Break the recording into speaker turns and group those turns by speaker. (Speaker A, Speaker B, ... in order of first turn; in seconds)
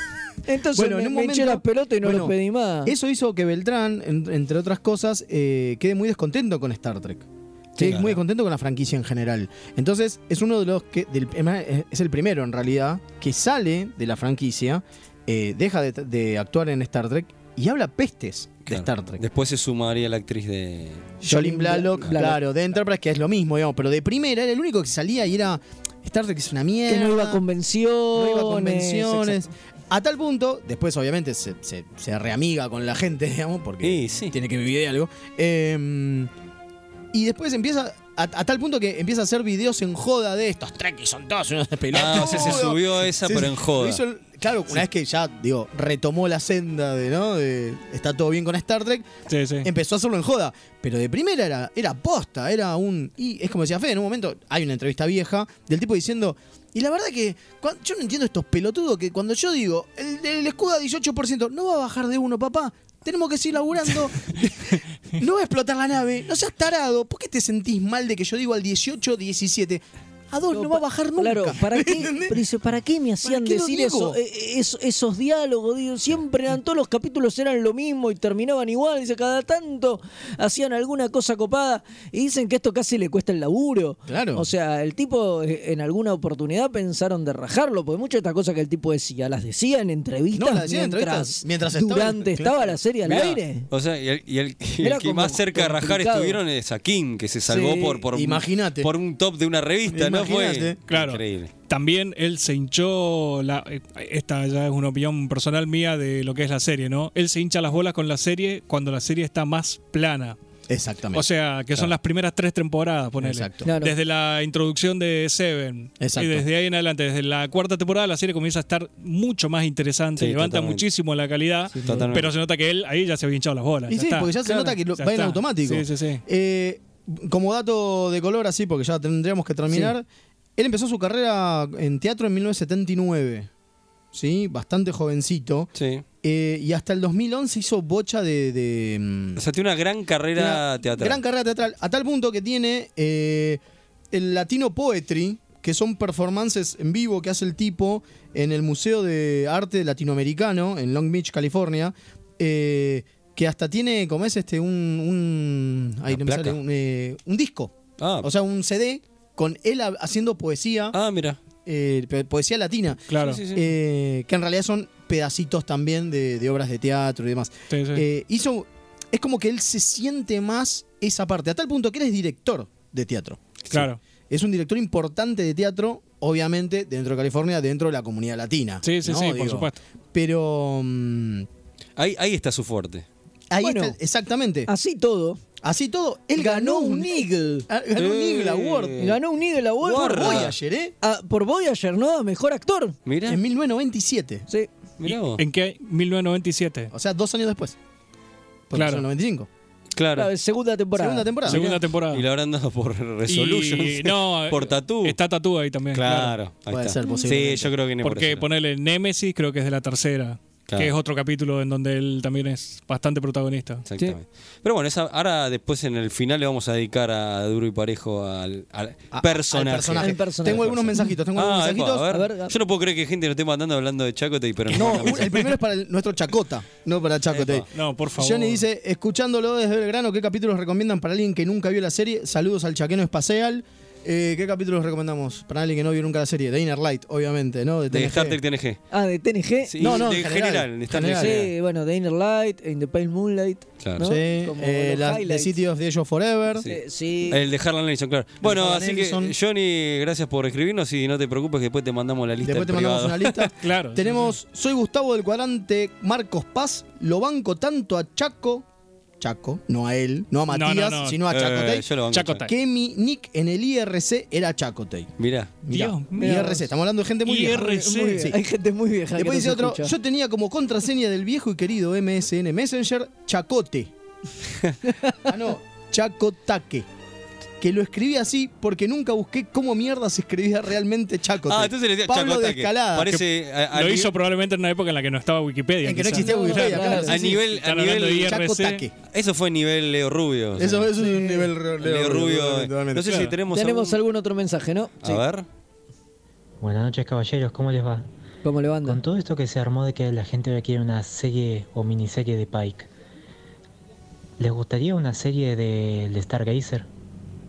Speaker A: 0.5-2.9, 7.8-8.1, 21.2-22.4, 26.9-29.4, 70.5-93.7, 94.8-96.4, 97.5-98.0, 113.6-114.0, 121.8-122.1, 183.6-184.0, 184.7-185.4, 186.3-187.7, 189.0-190.5, 191.0-193.0, 200.2-201.4, 220.0-221.0, 222.1-222.5, 238.9-240.1, 241.1-245.6, 246.6-247.4, 266.2-266.6, 267.6-269.9, 274.9-275.1, 286.1-287.2, 291.0-291.5, 293.5-295.2, 298.4-299.0
Speaker B: 0.7-7.3, 7.8-19.2, 21.2-27.4, 28.1-36.3, 37.1-49.1, 49.6-72.4, 73.2-74.2, 84.1-84.5, 90.3-92.8, 98.1-98.9, 99.9-100.8, 110.7-111.3, 113.2-113.6, 116.0-116.5, 123.9-130.1, 130.6-133.5, 134.1-135.7, 136.2-139.4, 140.3-161.0, 161.7-173.6, 174.3-181.5, 183.5-184.7, 185.6-189.1, 189.9-190.9, 193.3-194.5, 196.9-197.8, 198.7-199.5, 200.9-201.7, 206.7-207.7, 219.1-222.1, 224.7-238.4, 239.8-241.4, 244.0-246.7, 248.4-249.3, 252.4-258.7, 259.2-265.1, 265.7-268.4, 269.2-273.9, 275.2-276.9, 277.6-283.2, 285.8-287.5, 288.2-288.9, 290.6-293.3
Speaker C: 7.8-8.1, 18.7-21.1, 33.8-34.3, 41.9-44.0, 93.1-101.5, 120.2-120.8, 121.8-122.3, 135.8-136.0, 139.4-141.2, 156.1-156.6, 158.0-158.3, 160.9-161.4, 163.2-163.6, 182.0-183.1, 187.9-189.2, 189.8-190.6, 193.1-193.4, 195.0-195.4, 200.0-200.3, 201.5-205.2, 205.9-208.5, 213.9-225.4, 227.3-227.6, 237.9-238.8, 239.6-241.5, 243.8-244.1, 247.3-253.4, 261.3-262.4, 265.2-265.5, 281.5-284.1, 287.1-288.4, 289.1-290.9, 291.8-294.0, 295.0-295.5
Speaker D: 49.3-49.7, 100.9-110.4, 111.1-126.2, 163.1-163.4, 167.7-168.1, 173.7-174.0, 178.8-179.8, 195.1-196.9, 198.7-199.1, 201.5-202.3, 203.3-206.4, 208.0-213.8, 227.7-228.6, 253.6-254.3, 260.5-261.2, 262.1-262.5, 265.7-266.4, 267.2-268.3, 283.7-288.9
Speaker E: 296.6-298.1, 298.8-302.9, 304.4-306.9